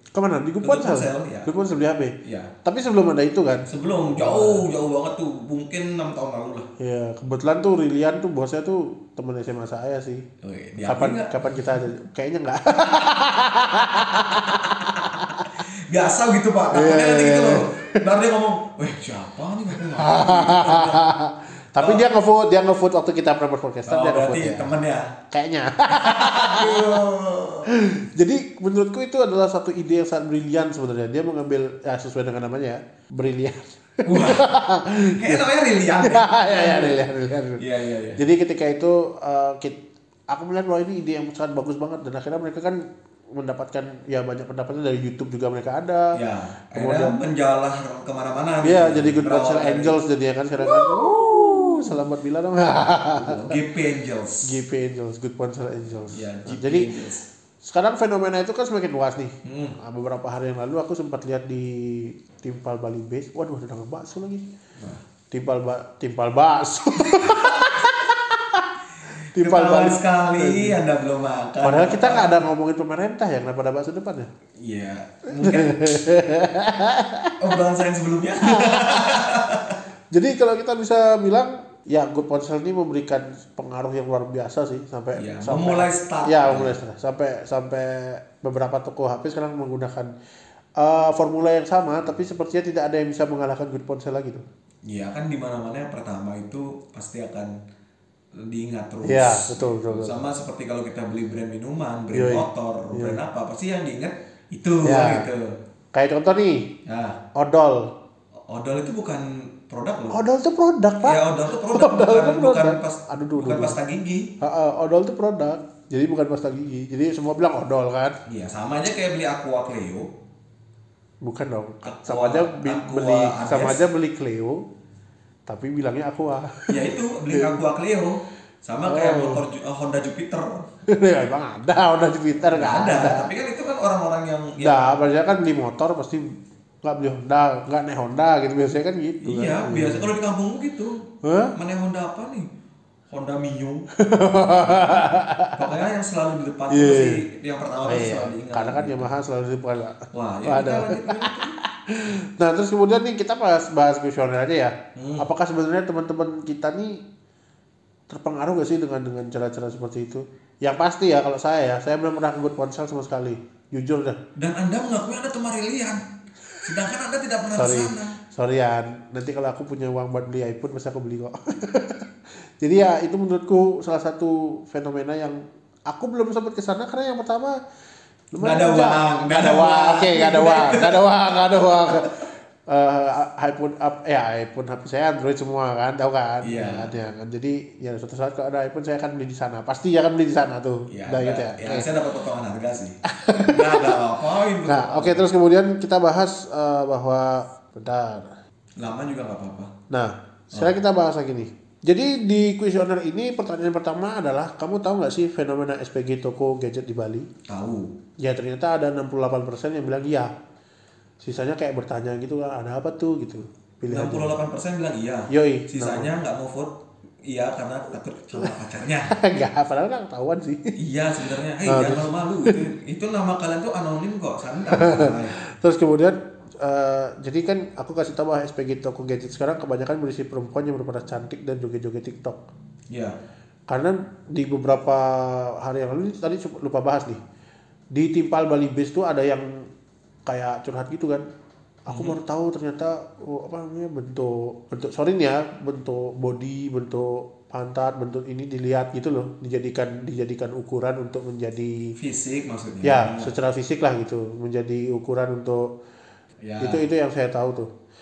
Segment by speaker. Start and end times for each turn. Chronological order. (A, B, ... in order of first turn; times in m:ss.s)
0:00.1-0:04.6 A
0:00.6-0:01.5 B
0:02.2-0:02.5 B
0:03.6-0:06.7 B
0:06.8-0:10.2 A
0:10.4-0:11.8 B
0:10.8-0:15.5 A
0:12.8-0:13.1 B
0:14.2-0:21.0 B
0:16.7-0:18.0 A
0:19.8-0:24.7 A
0:21.8-0:22.0 B
0:23.8-0:25.1 B
0:25.3-0:27.0 A
0:25.9-0:27.7 B
0:27.7-0:35.5 A
0:34.0-0:34.5 B
0:35.0-0:37.0 B
0:36.0-0:37.6 A
0:37.6-0:38.2 B
0:38.1-0:39.8 A
0:40.3-0:42.8 A
0:43.3-0:46.2 A
0:46.1-0:50.0 B
0:46.7-0:47.1 A
0:48.6-0:53.4 A
0:50.6-0:52.0 B
0:53.2-0:54.5 B
0:54.4-0:56.9 A
0:56.1-0:57.2 B
0:57.6-1:04.4 A
0:59.4-0:59.8 B
1:04.8-1:05.0 B
1:05.3-1:08.7 A
1:07.1-1:07.7 B
1:09.3-1:10.8 A
1:09.3-1:12.4 B
1:11.6-1:14.3 A
1:14.6-1:16.0 B
1:15.4-1:17.3 A
1:17.4-1:19.8 B
1:18.4-1:19.2 A
1:20.1-1:30.1 A
1:25.1-1:26.8 B
1:30.8-1:34.4 A
1:34.8-1:37.5 B
1:38.4-1:45.5 B
1:39.0-1:40.2 A
1:42.1-1:43.2 A
1:44.8-1:45.3 A
1:45.9-1:46.7 A
1:46.8-1:47.2 B
1:47.3-1:47.9 A
1:48.5-1:50.2 B
1:50.1-1:53.8 A
1:51.0-1:54.3 B
1:54.4-1:58.1 A
1:58.2-2:00.1 B
2:01.2-2:04.6 A
2:01.8-2:03.8 B
2:05.5-2:06.6 A
2:06.7-2:10.6 B
2:07.3-2:07.6 A
2:08.8-2:09.4 A
2:10.9-2:13.3 A
2:12.5-2:15.0 B
2:14.6-2:16.2 A
2:16.8-2:20.1 A
2:19.2-2:21.0 B
2:21.2-2:21.5 A
2:21.5-2:22.5 B
2:23.1-2:23.8 B
2:24.0-2:25.7 A
2:24.5-2:25.0 B
2:25.6-2:29.1 B
2:26.7-2:27.2 A
2:27.8-2:37.0 A
2:30.1-2:31.6 B
2:35.0-2:35.2 B
2:38.1-2:44.2 A
2:44.4-2:46.0 B
2:46.6-2:48.2 B
2:47.6-2:52.0 A
2:52.6-2:57.6 A
2:58.3-3:02.1 A
2:58.4-3:02.3 B
3:02.7-3:11.9 A
3:06.4-3:07.0 B
3:10.9-3:15.3 B
3:13.2-3:14.0 A
3:14.6-3:18.3 A
3:18.8-3:19.7 B
3:19.9-3:27.3 A
3:27.5-3:27.9 B
3:28.2-3:30.3 A
3:31.2-3:34.3 A
3:33.9-3:39.2 B
3:35.3-3:36.1 A
3:39.1-3:40.7 A
3:40.8-3:45.3 B
3:41.6-3:42.6 A
3:44.8-3:52.4 A
3:52.9-3:53.2 B
3:53.7-3:57.2 A
3:57.9-3:59.6 A
4:00.3-4:01.2 A
4:01.9-4:11.9 A
4:01.9-4:02.2 B
4:12.0-4:13.3 B
4:12.8-4:15.7 A
4:16.4-4:16.8 B
4:16.6-4:17.7 A